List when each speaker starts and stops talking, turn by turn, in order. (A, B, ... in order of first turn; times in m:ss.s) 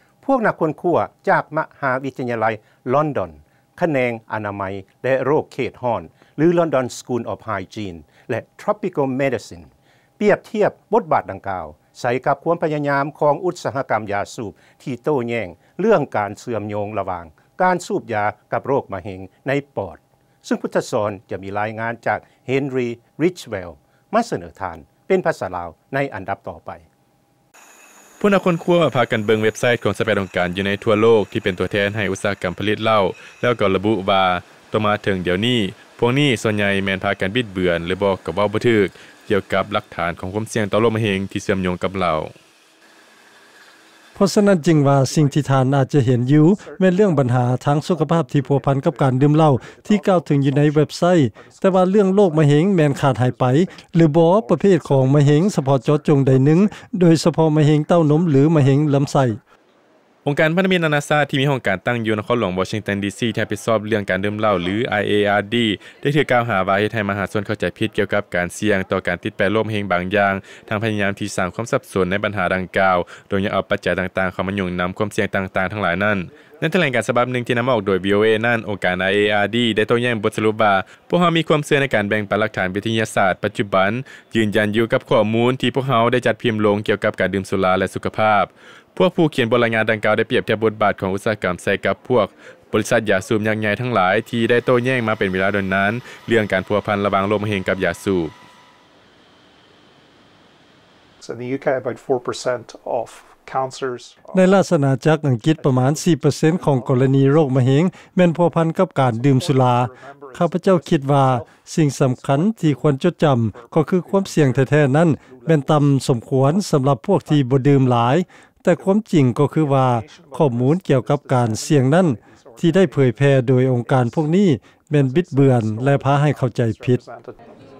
0:00.2-0:26.8 A
0:28.2-0:42.3 B
0:44.2-0:59.4 C
0:44.5-0:59.4 D
1:00.2-1:38.3 B
1:41.2-1:44.6 D
1:44.3-2:07.0 C
1:45.5-1:47.8 D
1:49.0-2:07.5 D